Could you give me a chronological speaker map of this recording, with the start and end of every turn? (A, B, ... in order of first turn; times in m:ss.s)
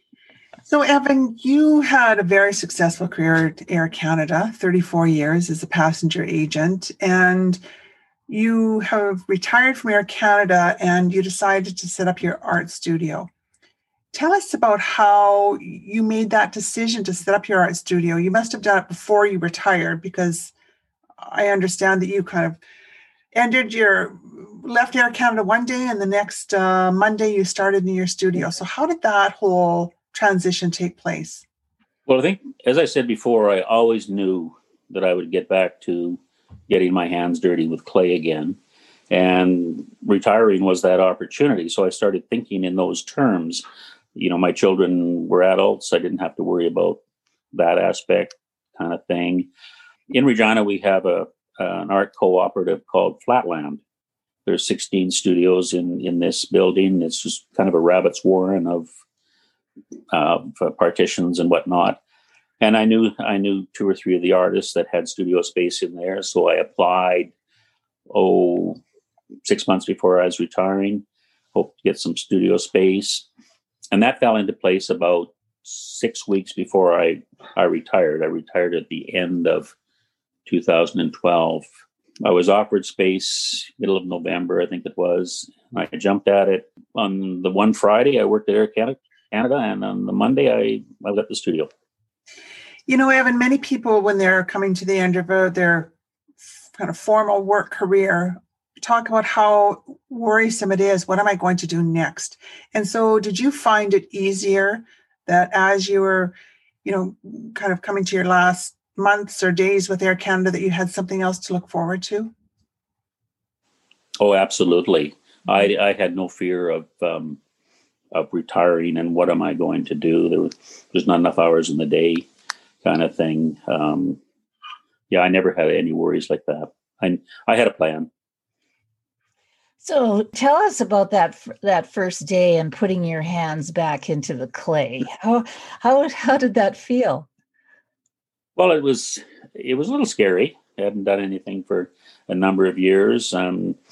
0:00.7-0:07.6 A
0:08.3-0:13.3 A
0:14.1-0:20.5 A
0:21.2-0:22.6 A
0:23.3-0:31.5 A
0:32.1-0:38.6 B
0:39.1-0:43.6 B
0:44.2-0:47.0 B
0:47.5-0:49.5 B
0:50.1-0:53.8 B
0:54.5-0:58.9 B
1:00.1-1:02.0 B
1:02.6-1:07.3 B
1:08.1-1:08.8 B
1:09.4-1:13.3 B
1:13.9-1:19.7 B
1:20.5-1:21.7 B
1:22.2-1:31.7 B
1:32.9-1:35.9 A
1:36.8-1:52.3 A
1:54.2-1:57.4 B
1:58.1-2:02.3 B
2:02.8-2:04.2 B
2:05.1-2:08.1 B
2:09.8-2:17.3 C
2:18.6-2:23.8 B